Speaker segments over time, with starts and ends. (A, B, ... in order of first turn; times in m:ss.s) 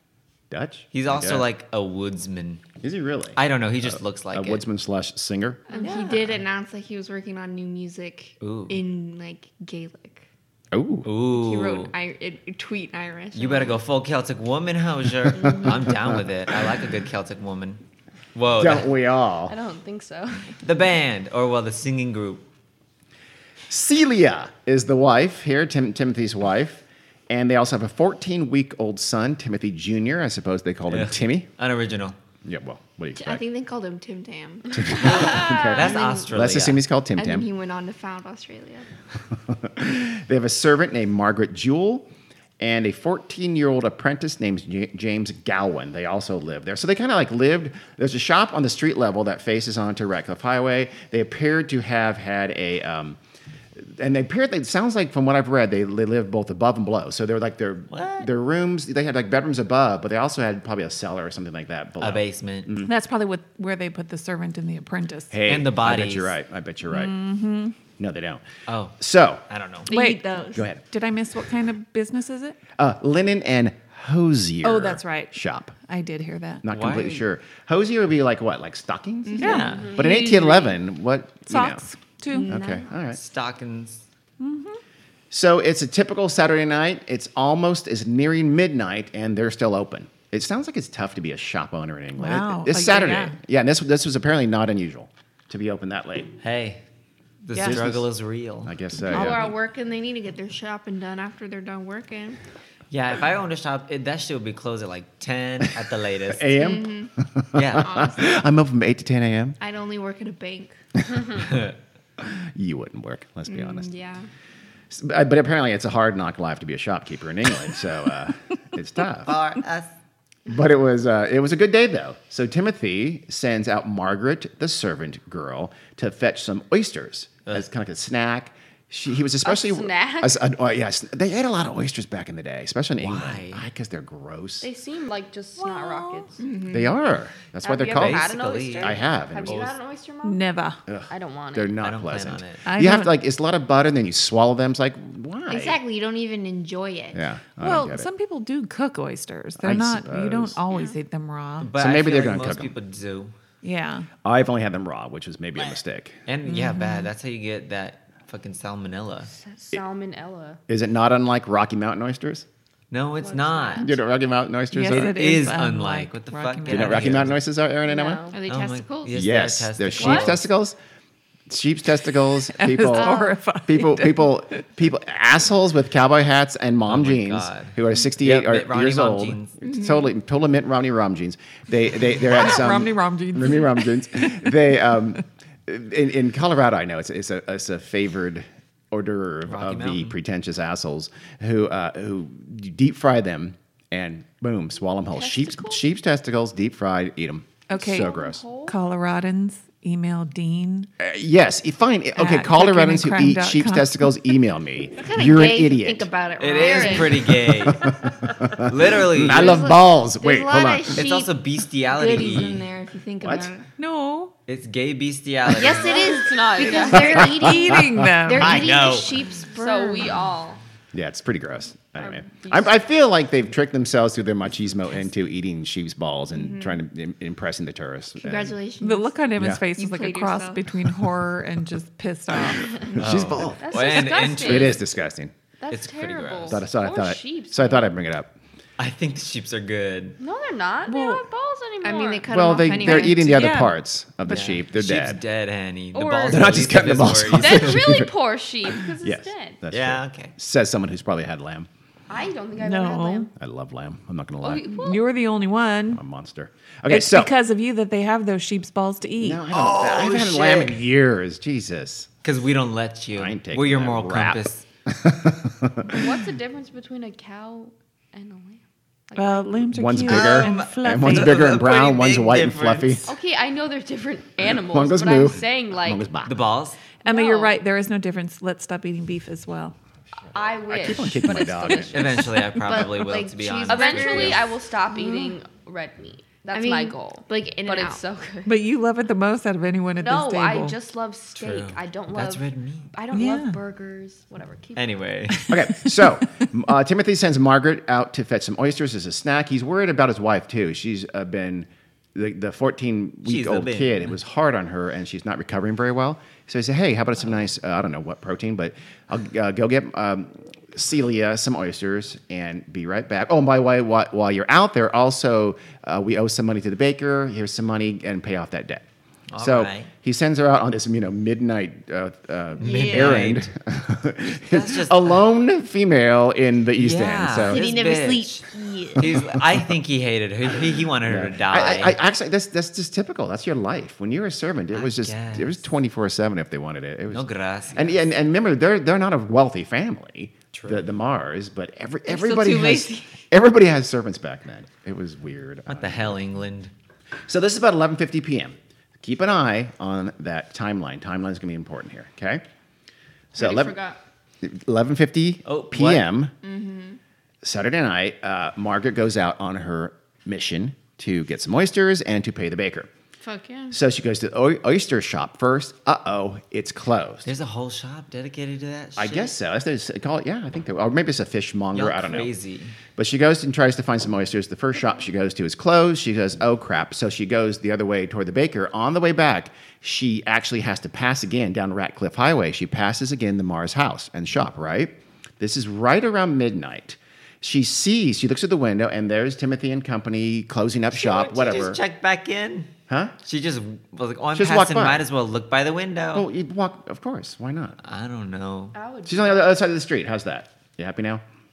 0:00.5-0:01.5 A
0:00.9-0:02.6 B
0:02.8-0:05.6 A
0:03.4-0:04.6 B
0:05.7-0:10.2 C
0:08.4-0:08.8 B
0:10.7-0:11.1 A
0:11.0-0:11.9 B
0:11.3-0:13.8 C
0:13.3-0:17.8 B
0:15.3-0:16.6 A
0:18.4-0:18.9 B
0:18.6-0:19.6 A
0:19.5-0:20.6 D
0:20.6-0:22.4 B
0:23.7-0:31.5 A
0:30.9-0:32.2 B
0:32.4-0:33.4 A
0:33.2-0:36.3 C
0:34.7-0:37.5 A
0:35.2-0:36.8 B
0:37.2-0:38.9 C
0:39.5-0:42.1 A
0:42.6-0:53.2 A
0:53.8-1:02.9 A
0:57.9-0:58.3 B
1:02.0-1:02.7 B
1:02.8-1:05.3 E
1:05.3-1:07.2 A
1:05.5-1:06.4 B
1:06.9-1:07.8 E
1:08.0-1:08.4 A
1:08.7-1:09.0 B
1:09.0-1:09.4 A
1:09.5-1:09.9 B
1:09.9-1:10.6 C
1:09.9-1:12.6 E
1:10.5-1:10.8 A
1:12.8-1:15.8 A
1:14.6-1:16.6 E
1:16.6-1:21.8 A
1:16.7-1:17.3 B
1:19.3-1:19.6 C
1:19.4-1:20.8 E
1:19.4-1:19.9 B
1:19.6-1:20.2 D
1:21.5-1:22.5 E
1:22.3-1:22.9 C
1:22.5-1:23.2 A
1:23.1-1:24.0 B
1:24.4-1:24.8 E
1:25.3-1:36.3 A
1:32.2-1:33.4 E
1:36.4-1:36.8 B
1:37.4-1:38.7 B
1:37.5-1:37.8 E
1:37.6-1:38.1 A
1:38.6-1:39.5 A
1:39.1-1:39.5 E
1:39.1-1:42.4 C
1:42.9-1:46.5 B
1:46.3-1:49.6 A
1:46.6-1:47.1 C
1:47.6-1:47.9 B
1:47.8-1:48.4 C
1:49.6-1:50.8 C
1:51.0-1:51.5 A
1:52.2-1:53.9 A
1:53.5-1:54.3 C
1:54.9-1:59.3 A
1:59.2-1:59.9 B
2:00.5-2:14.7 A
2:09.4-2:10.4 D
2:13.0-2:13.7 B
2:14.6-2:16.4 D
2:15.6-2:16.3 E
2:16.4-2:17.0 C
2:16.7-2:19.8 A
2:17.6-2:20.5 D
2:18.0-2:19.8 B
2:20.2-2:20.8 E
2:20.9-2:25.8 A
2:21.1-2:21.8 D
2:21.8-2:22.6 B
2:22.7-2:23.2 E
2:25.5-2:27.2 C
2:27.1-2:28.1 A
2:27.6-2:31.7 E
2:29.6-2:30.6 A
2:31.6-2:33.4 B
2:31.8-2:32.8 A
2:33.6-2:34.1 E
2:34.2-2:36.2 A
2:36.3-2:39.3 B
2:36.5-2:37.1 E
2:39.3-2:40.6 D
2:40.7-2:42.5 A
2:42.9-2:43.9 B
2:43.2-2:44.0 D
2:43.8-2:45.2 A
2:44.7-2:47.2 E
2:44.9-2:47.4 B
2:46.7-2:48.2 A
2:47.8-2:48.4 D
2:48.3-2:49.2 C
2:48.5-2:50.5 B
2:49.1-2:50.8 A
2:51.5-3:18.4 A
2:52.5-2:54.3 E
2:52.9-2:53.3 C
2:56.9-2:59.5 B
2:59.6-3:00.1 C
3:02.2-3:04.5 E
3:09.5-3:10.2 B
3:15.2-3:15.8 D
3:17.7-3:18.1 E
3:17.8-3:18.8 D
3:18.7-3:20.9 E
3:21.0-3:26.1 A
3:22.2-3:24.2 E
3:25.0-3:27.4 C
3:26.4-3:27.8 B
3:26.5-3:27.4 D
3:27.4-3:31.0 A
3:28.6-3:29.6 B
3:29.3-3:31.4 C
3:30.9-3:32.6 B
3:31.9-3:33.6 C
3:33.2-3:33.5 A
3:33.8-3:34.3 E
3:34.5-3:36.0 B
3:35.5-3:40.2 C
3:35.7-3:37.3 D
3:36.9-3:38.7 A
3:37.3-3:38.6 E
3:38.4-3:39.1 B
3:39.0-3:40.6 D
3:40.9-3:48.6 A
3:42.0-3:42.8 D
3:46.3-3:46.8 C
3:48.2-3:49.2 C
3:48.8-3:52.8 E
3:49.4-3:49.6 A
3:49.8-3:50.6 C
3:52.8-3:55.3 A
3:53.0-3:54.8 B
3:53.6-3:54.8 D
3:55.6-3:57.9 D
3:55.7-3:56.6 B
3:56.5-3:58.3 A
3:58.8-4:00.2 B
4:00.2-4:02.3 D
4:00.9-4:01.2 E
4:01.8-4:03.7 C
4:02.3-4:05.2 A
4:02.8-4:03.8 E
4:04.3-4:07.9 B
4:05.9-4:06.7 D
4:06.3-4:08.1 A
4:07.3-4:09.6 D
4:09.0-4:11.7 A
4:09.7-4:10.3 B
4:12.1-4:13.3 D
4:12.6-4:13.3 E
4:13.4-4:14.7 A
4:14.4-4:15.1 D
4:14.7-4:16.0 E
4:15.9-4:17.3 A
4:16.9-4:19.4 E
4:19.2-4:22.1 A
4:19.5-4:20.8 B
4:22.2-4:24.6 B
4:23.2-4:26.0 A
4:25.8-4:29.5 D
4:29.2-4:31.4 E
4:29.7-4:33.1 A
4:30.1-4:33.0 B
4:33.1-4:36.1 D
4:34.5-4:36.4 A
4:36.2-4:36.8 B
4:37.0-4:37.6 D
4:37.0-4:39.8 E
4:40.3-4:42.4 D
4:40.6-4:42.1 A
4:41.9-4:44.4 B
4:42.5-4:44.5 C
4:43.7-4:48.5 D
4:46.5-4:48.0 C
4:48.5-4:50.8 E
4:50.0-4:54.9 D
4:51.4-4:52.9 B
4:53.1-4:53.6 E
4:54.8-4:55.5 B
4:55.3-4:56.0 E
4:55.5-5:18.8 A
5:03.2-5:04.2 B
5:19.3-5:19.9 B
5:19.4-5:27.6 A
5:22.6-5:23.5 B
5:22.6-5:23.2 C
5:24.3-5:25.2 B
5:26.8-5:28.5 B
5:27.5-5:29.2 C
5:29.0-5:32.0 B
5:29.0-5:29.7 A
5:31.0-5:46.2 A
5:34.7-5:35.6 B
5:37.1-5:38.1 B
5:40.5-5:40.9 B
5:42.1-5:43.2 C
5:45.7-5:46.7 B
5:47.3-5:52.4 A
5:53.3-5:53.8 A
5:53.4-5:54.0 D
5:54.4-5:56.3 A
5:55.4-5:56.1 B
5:56.4-5:57.0 C
5:57.4-6:02.9 A
6:03.2-6:03.7 C
6:03.7-6:07.3 A
6:07.2-6:09.4 B
6:09.0-6:12.3 A
6:11.7-6:12.8 B
6:13.0-6:31.8 A
6:30.9-6:32.7 B
6:32.9-6:33.1 A
6:33.2-6:36.3 B
6:34.4-6:35.0 A
6:36.1-6:37.8 A
6:37.8-6:38.8 B
6:38.7-6:39.6 D
6:39.0-6:41.2 A